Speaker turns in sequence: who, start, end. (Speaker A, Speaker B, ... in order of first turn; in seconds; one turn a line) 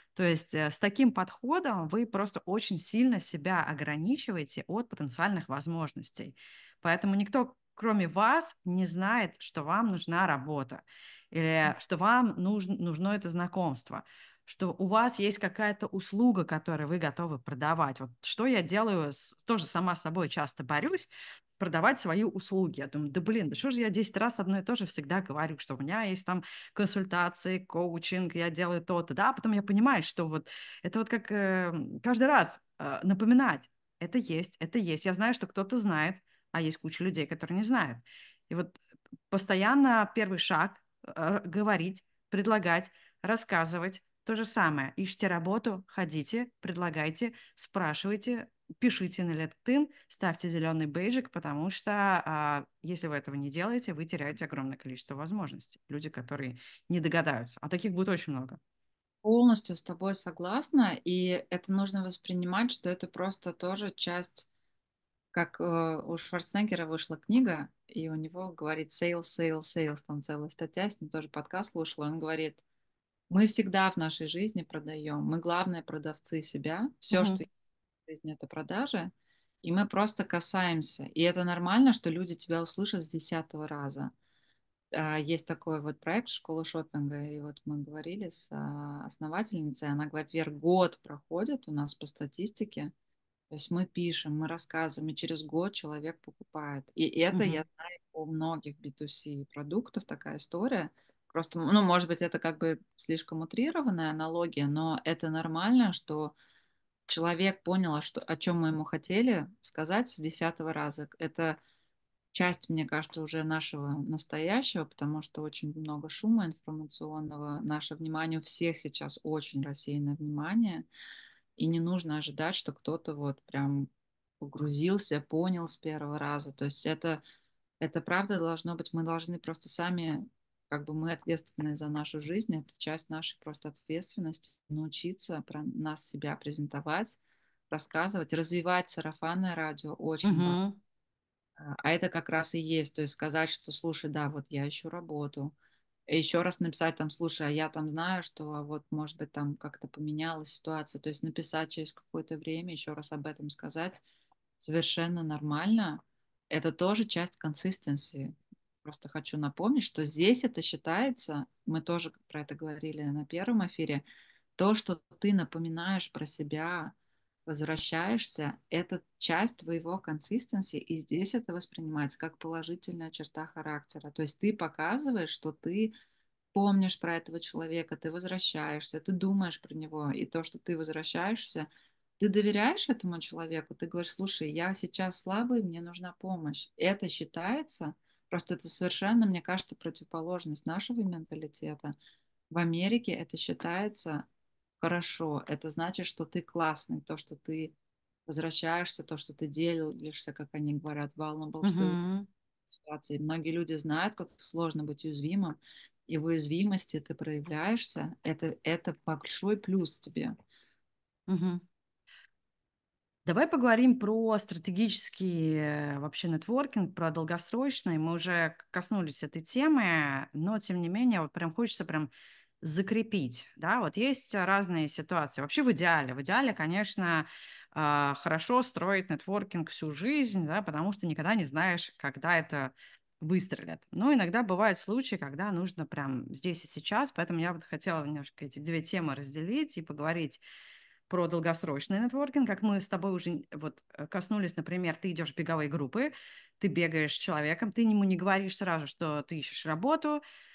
Speaker A: 0.1-38.8
Speaker A: 39.3-58.6
Speaker B: 59.2-64.5
Speaker B: 65.3-72.6
Speaker B: 73.3-77.5
Speaker A: 77.1-77.4
Speaker B: 78.1-79.1
Speaker B: 79.6-84.1
Speaker B: 84.9-92.9
Speaker B: 93.5-106.3
Speaker A: 97.3-97.6
Speaker B: 107.1-111.6
Speaker B: 112.3-120.9
Speaker B: 121.6-123.9
Speaker B: 124.4-127.2
Speaker B: 127.8-137.2
Speaker B: 137.7-140.6
Speaker A: 140.2-140.8
Speaker B: 141.6-145.5
Speaker B: 146.1-154.0
Speaker B: 154.6-164.0
Speaker B: 164.6-166.9
Speaker B: 167.5-175.9
Speaker B: 176.5-181.7
Speaker B: 182.2-192.0
Speaker B: 192.5-194.3
Speaker B: 194.8-197.8
Speaker B: 198.3-202.0
Speaker A: 201.6-202.3
Speaker B: 202.7-210.3
Speaker A: 211.3-211.6
Speaker A: 213.2-240.4
Speaker A: 241.1-250.2